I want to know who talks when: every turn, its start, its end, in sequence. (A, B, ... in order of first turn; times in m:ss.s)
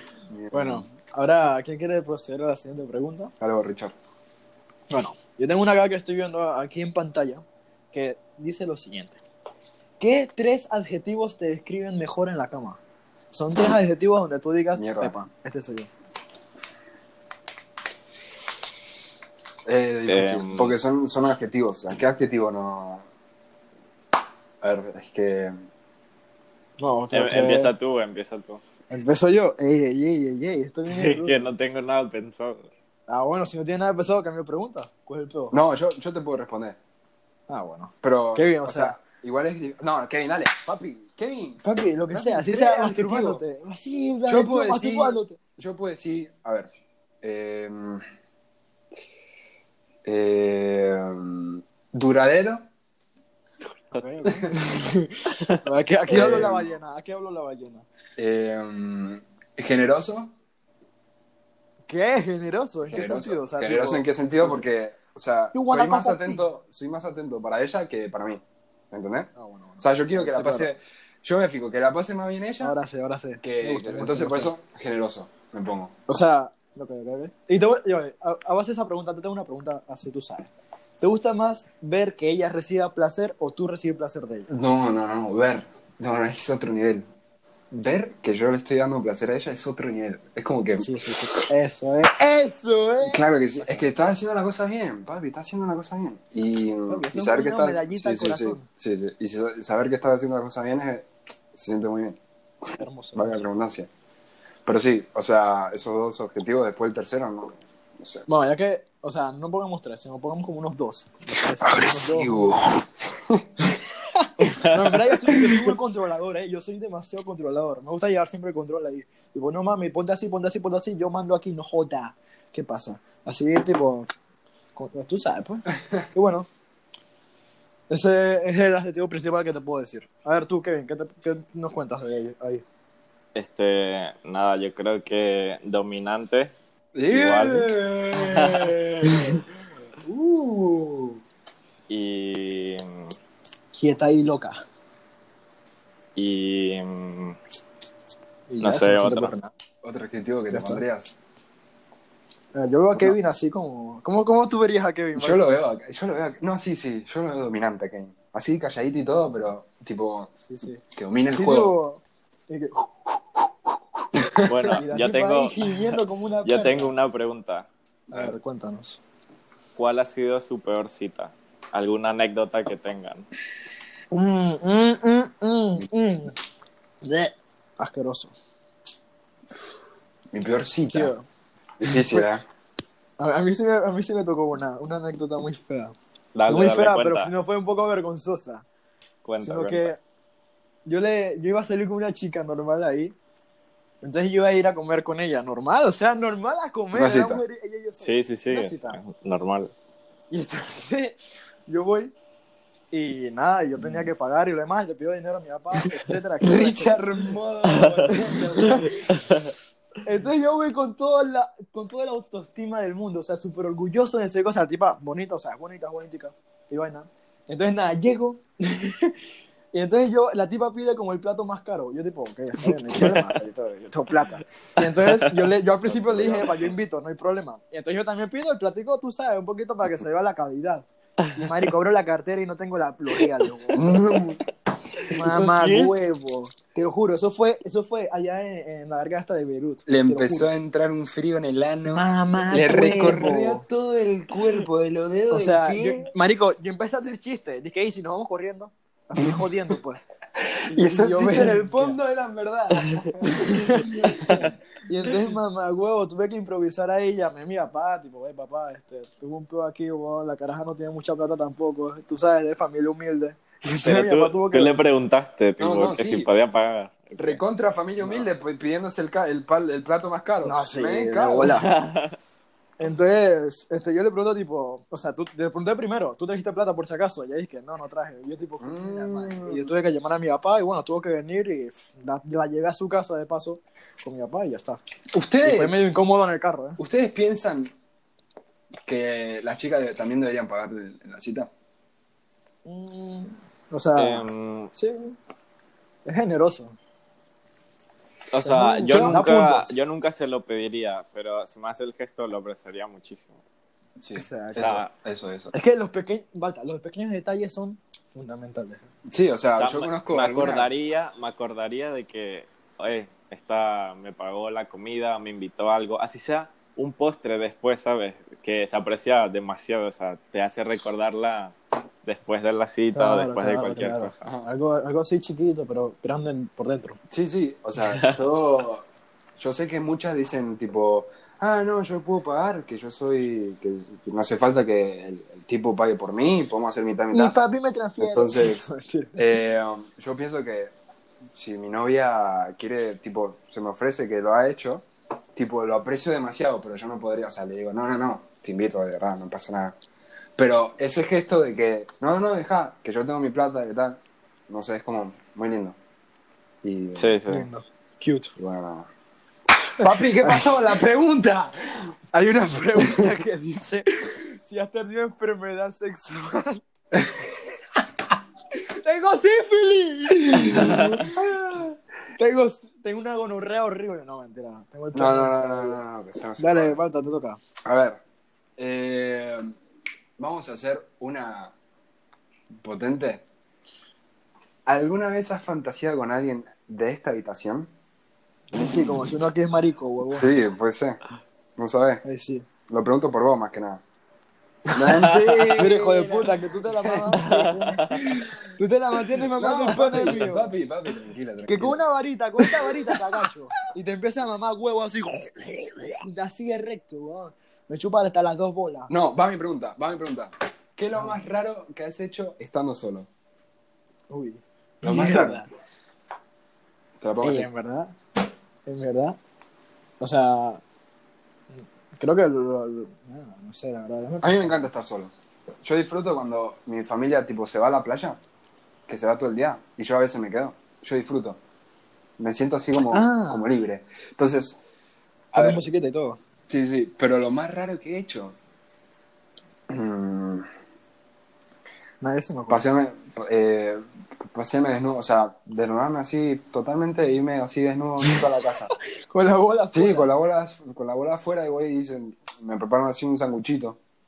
0:00.3-0:00.9 A
0:00.5-0:03.3 B
0:03.4-0:03.9 A
0:04.9-0:09.2 B
0:10.0-0:12.8 B
0:13.3-0:15.9 B
0:14.7-0:15.2 A
0:19.6-0:23.0 A
0:20.0-0:20.7 C
0:24.6-0:25.5 A
0:26.8-0:27.7 B
0:27.1-0:28.6 C
0:28.9-0:31.5 B
0:30.9-0:32.7 C
0:33.1-0:35.6 B
0:35.5-0:36.8 A
0:37.5-0:39.0 B
0:38.0-0:43.4 A
0:41.6-0:45.4 B
0:44.2-0:46.7 A
0:47.2-0:48.0 A
0:50.0-0:52.6 A
0:53.9-0:57.8 B
0:55.3-0:55.6 C
0:56.1-0:56.8 A
0:58.2-1:00.3 A
1:01.9-1:04.7 B
1:02.9-1:12.7 A
1:05.5-1:06.4 B
1:09.4-1:10.7 B
1:12.6-1:14.5 B
1:13.4-1:15.9 A
1:16.1-1:24.5 B
1:24.5-1:27.0 A
1:27.7-1:30.9 A
1:30.8-1:33.9 B
1:33.0-1:42.2 A
1:36.9-1:38.7 B
1:42.8-1:43.5 B
1:43.1-1:43.9 A
1:44.6-1:48.3 A
1:48.3-1:52.5 B
1:51.6-1:53.4 A
1:54.4-1:55.7 C
1:54.6-2:04.1 B
2:04.7-2:06.5 B
2:07.9-2:12.6 B
2:13.3-2:16.5 C
2:16.9-2:19.4 A
2:17.1-2:18.7 C
2:20.0-2:21.2 A
2:21.9-2:23.1 C
2:23.7-2:24.6 B
2:26.2-2:27.4 C
2:28.5-2:29.5 B
2:28.6-2:29.3 C
2:29.8-2:31.2 A
2:30.5-2:30.8 B
2:32.5-2:35.4 B
2:35.2-2:40.3 A
2:40.4-2:42.8 B
2:40.9-2:41.8 A
2:44.1-2:44.8 A
2:44.4-2:47.7 C
2:44.7-2:46.9 B
2:48.1-2:49.0 B
2:49.8-2:53.3 C
2:54.1-2:56.3 B
2:57.0-2:58.3 B
3:00.3-3:01.1 A
3:00.9-3:01.2 B
3:01.8-3:02.4 A
3:01.9-3:02.3 B
3:03.2-3:06.0 B
3:06.3-3:07.3 C
3:06.5-3:08.6 B
3:09.2-3:09.9 C
3:09.4-3:10.0 B
3:10.8-3:13.1 B
3:14.0-3:19.0 B
3:16.9-3:17.4 A
3:18.0-3:19.7 C
3:20.3-3:22.1 B
3:22.9-3:27.0 B
3:26.4-3:29.0 A
3:27.7-3:28.1 C
3:27.9-3:29.0 B
3:29.0-3:29.5 C
3:30.0-3:39.1 B
3:39.7-3:54.1 B
3:43.0-3:43.3 C
3:44.8-3:45.4 C
3:45.8-3:46.7 A
3:53.7-3:54.4 A
3:55.1-3:55.9 A
3:55.1-4:00.5 B
3:59.9-4:06.1 A
4:01.9-4:03.6 B
4:05.3-4:10.0 B
4:10.7-4:12.0 B
4:10.7-4:14.5 A
4:13.0-4:24.8 B
4:23.8-4:27.4 C
4:25.6-4:26.3 A
4:27.2-4:31.6 A
4:28.0-4:28.3 B
4:30.4-4:31.7 B
4:31.4-4:32.2 C
4:32.8-4:44.8 B
4:38.6-4:39.7 A
4:45.1-4:45.8 A
4:45.4-4:46.8 B
4:46.8-4:47.7 A
4:48.9-4:51.5 A
4:52.6-4:55.2 B
4:54.0-4:54.7 C
4:56.0-4:56.8 B
4:58.3-5:03.4 C
4:58.4-4:59.7 B
4:58.8-4:59.2 A
5:04.0-5:05.5 A
5:04.1-5:04.8 B
5:04.5-5:04.9 C
5:05.5-5:08.8 B
5:09.1-5:10.7 A
5:09.5-5:24.3 C
5:22.9-5:27.0 B
5:27.1-5:28.8 A
5:29.4-5:37.4 A
5:37.1-5:39.3 B
5:38.0-5:38.6 A
5:39.2-5:40.7 A
5:41.3-5:49.8 A
5:50.4-5:55.8 A
5:56.6-5:57.2 A
5:56.9-5:57.5 C
5:57.3-5:58.3 B
5:58.4-5:58.9 A
5:59.8-6:01.5 A
6:00.1-6:00.6 B
6:02.1-6:06.6 B
6:08.8-6:15.8 B
6:10.6-6:11.0 C
6:14.9-6:16.8 A
6:16.4-6:17.4 B
6:17.6-6:18.0 A
6:18.6-6:19.5 A
6:20.2-6:21.5 A
6:22.6-6:23.2 A
6:24.6-6:27.7 A
6:28.5-6:30.3 B
6:30.1-6:31.0 A
6:31.6-6:32.0 A
6:32.0-6:32.4 B
6:32.7-6:33.8 A
6:34.7-6:37.2 A
6:35.0-6:35.7 C
6:35.6-6:40.5 B
6:37.2-6:38.0 C
6:39.4-6:41.8 A
6:39.9-6:40.2 C
6:41.5-6:48.9 B
6:48.9-6:53.1 A
6:54.1-6:55.5 B
6:54.8-6:55.4 A
6:57.0-6:57.5 A
6:57.2-6:57.9 B
6:58.6-6:59.2 B
7:00.0-7:00.6 B
7:01.6-7:04.6 B
7:04.2-7:08.2 A
7:08.9-7:11.4 A
7:12.2-7:14.6 A
7:12.9-7:13.5 B
7:15.3-7:15.6 A
7:15.3-7:16.2 B
7:16.5-7:18.4 A
7:19.7-7:20.5 A
7:22.0-7:22.6 B
7:22.5-7:28.7 A
7:29.1-7:30.1 B
7:29.7-7:33.8 A